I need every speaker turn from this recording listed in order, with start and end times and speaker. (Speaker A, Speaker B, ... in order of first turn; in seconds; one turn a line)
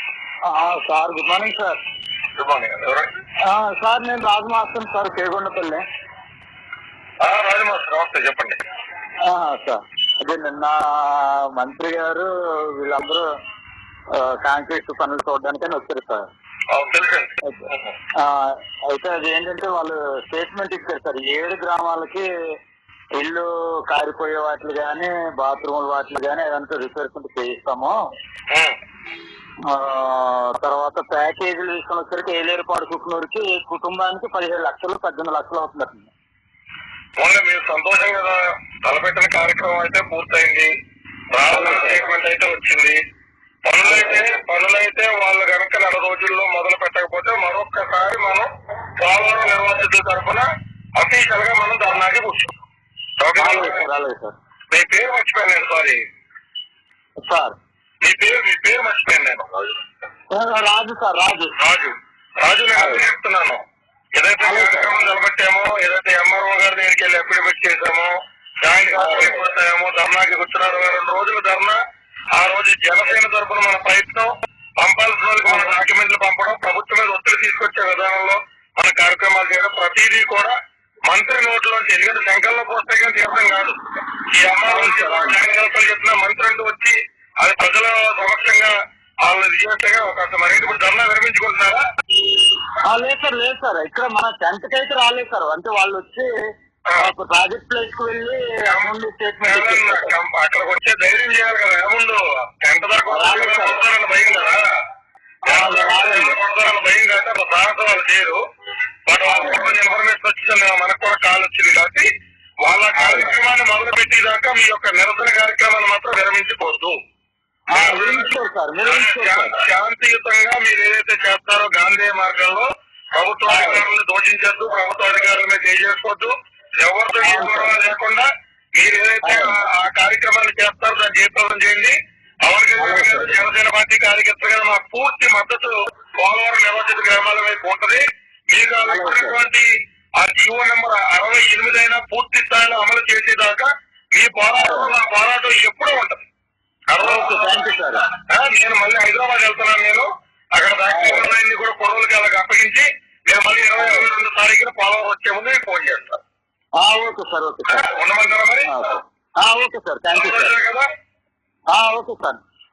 Speaker A: 0.4-1.8
Speaker B: 2.4-3.1
Speaker A: 3.4-5.8
Speaker B: 7.2-8.6
Speaker A: 9.2-13.2
Speaker A: 14.1-16.3
Speaker B: 16.7-17.9
Speaker A: 18.2-22.3
Speaker A: 23.1-27.9
Speaker B: 28.5-28.8
Speaker A: 29.6-36.1
Speaker B: 37.2-40.7
Speaker B: 41.3-43.0
Speaker A: 41.5-42.0
Speaker B: 43.6-52.5
Speaker A: 43.8-44.2
Speaker B: 53.2-53.8
Speaker A: 53.4-54.3
Speaker B: 54.7-56.0
Speaker A: 57.2-57.5
Speaker B: 58.0-59.8
Speaker A: 60.3-61.5
Speaker B: 61.6-63.6
Speaker A: 62.8-63.0
Speaker B: 64.1-71.8
Speaker A: 64.4-65.0
Speaker A: 69.0-69.3
Speaker B: 72.3-80.5
Speaker B: 81.1-91.8
Speaker A: 84.7-85.4
Speaker A: 92.8-96.3
Speaker A: 97.0-100.1
Speaker B: 99.4-104.7
Speaker A: 103.1-103.8
Speaker A: 105.5-106.4
Speaker B: 105.5-108.4
Speaker B: 109.1-112.1
Speaker A: 109.3-109.7
Speaker B: 112.6-116.9
Speaker A: 112.9-113.3
Speaker A: 117.7-119.5
Speaker B: 117.7-118.3
Speaker B: 118.8-128.2
Speaker A: 123.5-123.8
Speaker A: 127.2-127.7
Speaker B: 128.8-139.7
Speaker A: 129.2-129.5
Speaker A: 132.8-133.3
Speaker A: 138.8-139.4
Speaker B: 140.2-146.2
Speaker A: 144.5-144.9
Speaker B: 146.9-156.2
Speaker A: 147.0-148.0
Speaker A: 150.9-151.3
Speaker A: 153.8-154.1
Speaker A: 156.8-157.9
Speaker B: 157.7-158.7
Speaker A: 158.6-160.5
Speaker B: 160.1-160.9
Speaker A: 161.7-162.4